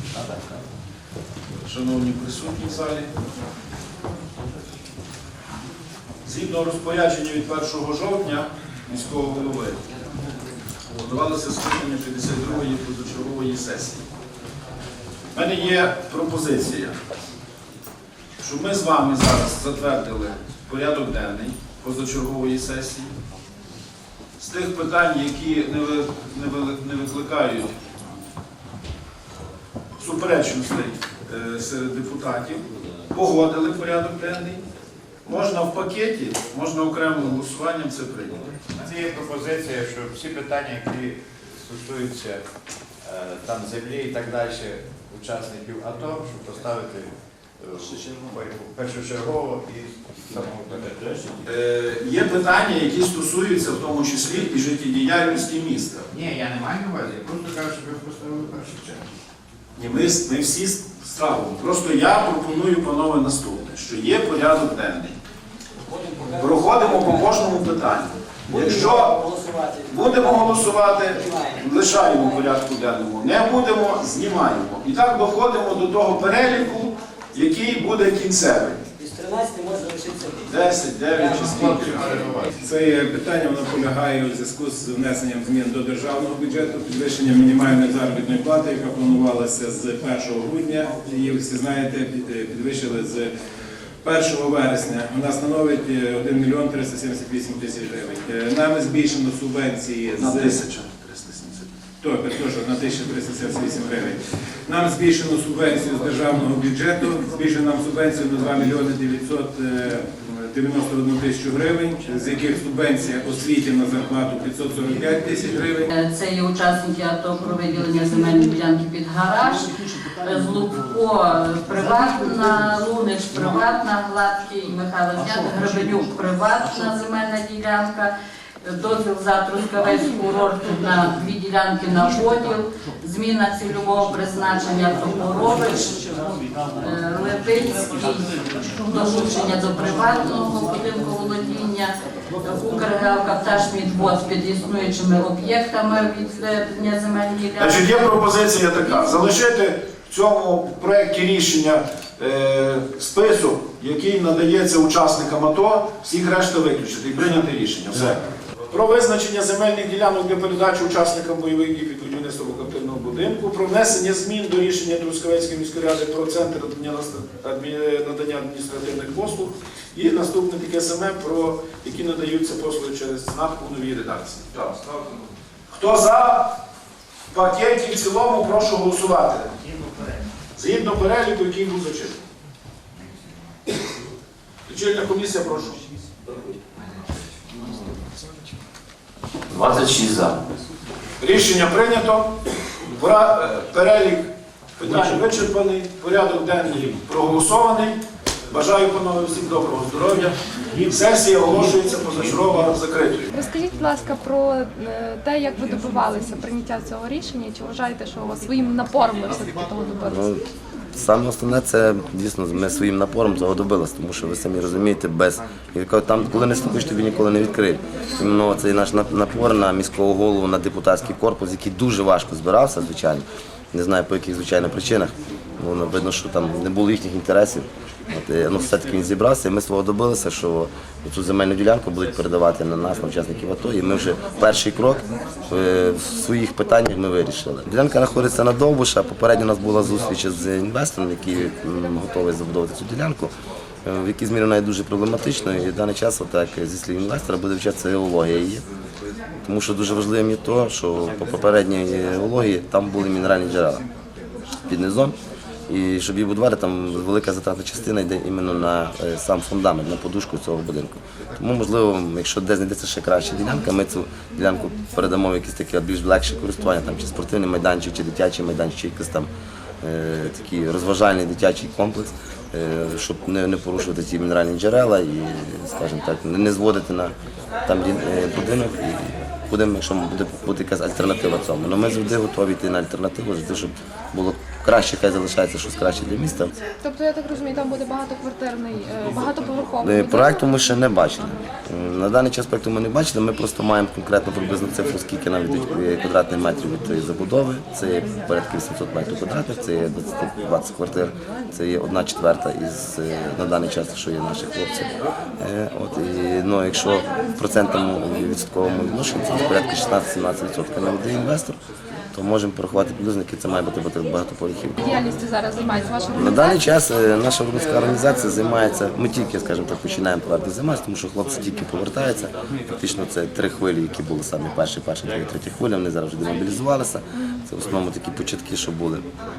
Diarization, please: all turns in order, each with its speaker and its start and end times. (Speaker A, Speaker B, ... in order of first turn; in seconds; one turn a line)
Speaker A: 1.6-3.1
Speaker A: 6.2-9.8
Speaker A: 10.9-14.1
Speaker A: 15.3-16.9
Speaker A: 18.4-23.1
Speaker A: 24.4-27.7
Speaker A: 30.0-34.6
Speaker A: 35.2-38.4
Speaker B: 38.8-42.4
Speaker B: 43.0-51.4
Speaker A: 51.5-56.1
Speaker B: 56.1-59.0
Speaker A: 59.8-65.2
Speaker A: 66.3-69.3
Speaker A: 69.8-78.8
Speaker A: 80.4-82.3
Speaker B: 81.4-82.5
Speaker C: 82.6-93.3
Speaker C: 94.0-100.6
Speaker A: 100.1-101.7
Speaker C: 102.0-115.9
Speaker D: 115.9-128.1
Speaker D: 128.6-136.0
Speaker D: 136.8-148.0
Speaker A: 147.6-175.1
Speaker A: 175.7-176.6
Speaker A: 177.3-179.5
Speaker A: 180.5-182.2
Speaker A: 184.7-185.9
Speaker E: 189.5-190.4
Speaker A: 191.2-197.9
Speaker A: 198.5-203.3
Speaker F: 203.3-210.2
Speaker E: 210.0-210.4
Speaker E: 210.9-243.3
Speaker E: 243.8-248.7
Speaker E: 249.4-253.8
Speaker E: 254.7-255.2
Speaker E: 255.7-269.3
Speaker E: 269.8-277.1
Speaker E: 277.6-286.5
Speaker F: 286.8-290.5
Speaker E: 289.8-304.9
Speaker E: 305.4-311.6
Speaker E: 312.1-314.9
Speaker F: 314.8-316.6
Speaker E: 316.1-329.1